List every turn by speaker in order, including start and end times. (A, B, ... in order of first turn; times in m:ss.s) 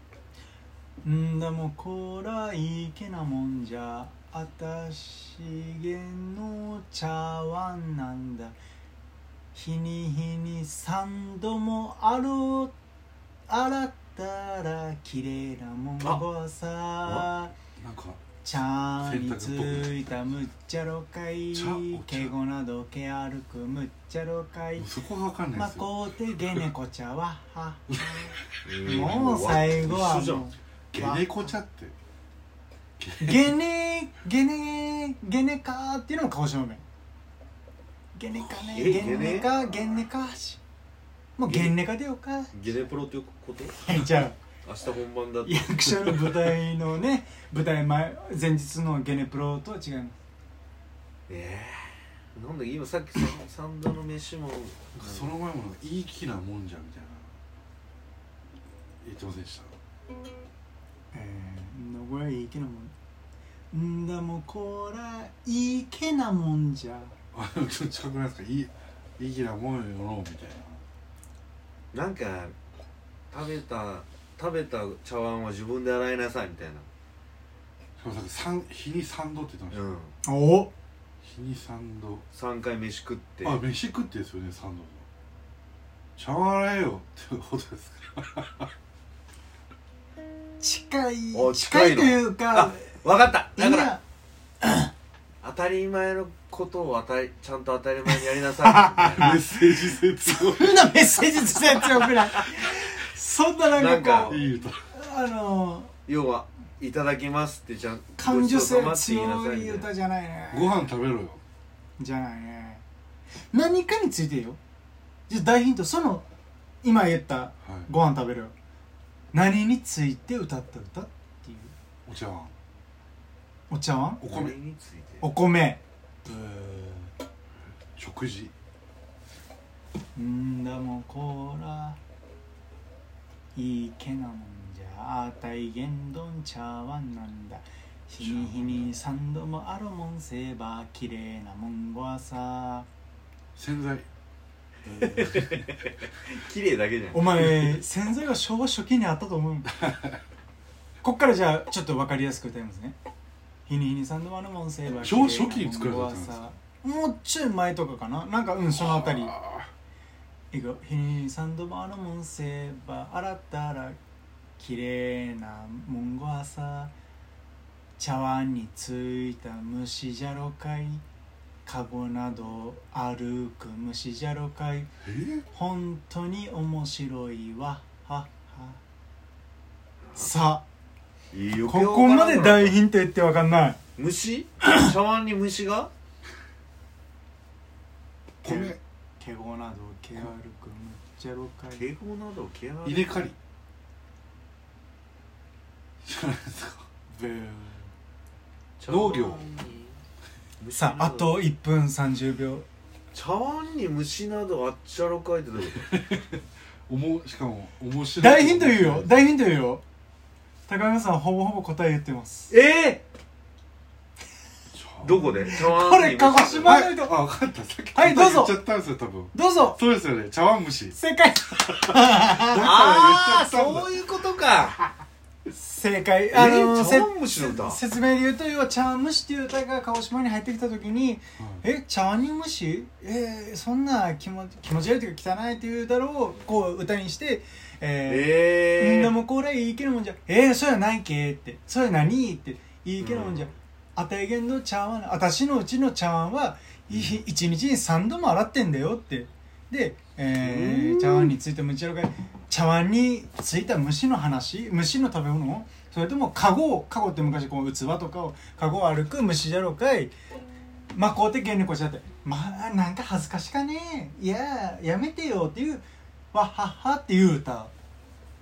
0:01.0-0:08.6 A
0:09.5-0:12.8 A
0:13.5-0:17.5 A
0:17.8-0:18.2 B
0:18.4-0:24.9 A
0:19.0-0:20.0 B
0:21.5-0:22.3 B
0:24.8-0:25.9 B
0:25.5-0:28.3 A
0:27.9-0:28.4 B
0:28.6-0:30.5 C
0:28.8-0:31.5 A
0:30.9-0:32.0 B
0:33.0-0:33.5 B
0:33.2-0:36.8 A
0:38.2-0:40.6 A
0:38.7-0:40.0 C
0:41.4-0:42.5 A
0:41.5-0:41.8 C
0:42.5-0:43.8 C
0:43.8-0:44.4 A
0:44.6-0:46.1 C
0:45.4-0:50.2 A
0:51.3-0:55.4 C
0:55.0-0:57.4 B
0:59.0-0:59.7 B
1:01.1-1:02.9 A
1:03.7-1:07.2 A
1:07.3-1:10.8 B
1:11.9-1:12.6 C
1:13.3-1:16.9 C
1:18.0-1:19.8 B
1:19.7-1:20.1 C
1:20.2-1:20.7 A
1:21.2-1:22.2 B
1:22.3-1:23.6 C
1:23.4-1:25.0 B
1:26.2-1:28.7 B
1:30.6-1:33.0 A
1:31.3-1:34.0 C
1:33.6-1:34.0 A
1:34.6-1:34.9 A
1:35.4-1:39.4 C
1:38.7-1:45.9 A
1:39.1-1:40.9 B
1:43.7-1:44.4 C
1:44.3-1:44.8 B
1:46.1-1:49.9 C
1:48.2-1:50.9 A
1:50.5-1:51.4 B
1:52.0-1:52.8 A
1:53.5-1:54.6 A
1:55.3-1:56.3 A
1:56.8-1:58.5 A
1:57.6-1:57.9 B
1:59.3-2:01.7 A
2:02.1-2:02.5 B
2:03.7-2:04.3 A
2:04.2-2:04.6 B
2:04.2-2:05.3 C
2:05.2-2:07.1 A
2:08.0-2:08.5 B
2:10.2-2:12.0 A
2:13.6-2:22.9 A
2:18.2-2:18.9 B
2:23.6-2:24.1 B
2:24.9-2:27.4 C
2:25.2-2:25.6 B
2:27.1-2:29.8 A
2:27.4-2:27.7 B
2:29.8-2:30.2 B
2:31.0-2:33.0 A
2:33.7-2:39.4 A
2:35.0-2:36.5 B
2:38.7-2:39.7 B
2:40.5-2:44.0 A
2:44.6-2:46.9 A
2:48.0-2:51.0 A
2:51.7-2:54.9 A
2:55.0-2:55.4 B
2:55.5-2:58.8 A
3:00.1-3:00.3 C
3:00.2-3:00.6 A
3:01.3-3:02.8 C
3:01.7-3:03.8 A
3:04.0-3:05.9 C
3:08.4-3:11.9 A
3:08.4-3:08.8 B
3:11.7-3:13.2 C
3:12.8-3:13.4 B
3:16.0-3:16.9 B
3:17.1-3:17.9 A
3:18.8-3:20.0 C
3:18.9-3:19.5 B
3:20.6-3:21.5 C
3:20.8-3:22.7 A
3:23.1-3:25.9 C
3:25.9-3:29.3 B
3:28.2-3:29.8 A
3:30.7-3:32.5 A
3:32.5-3:33.0 C
3:34.7-3:35.4 B
3:35.0-3:36.8 C
3:35.2-3:37.2 A
3:36.6-3:41.0 B
3:37.9-3:38.7 A
3:39.3-3:39.8 A
3:41.0-3:42.6 A
3:42.3-3:43.9 B
3:42.5-3:44.9 C
3:45.5-4:20.1 A
3:46.3-3:47.8 C
3:51.4-3:51.6 B
3:58.1-3:59.2 C
4:03.0-4:03.6 C
4:10.4-4:11.4 C
4:20.9-4:27.7 A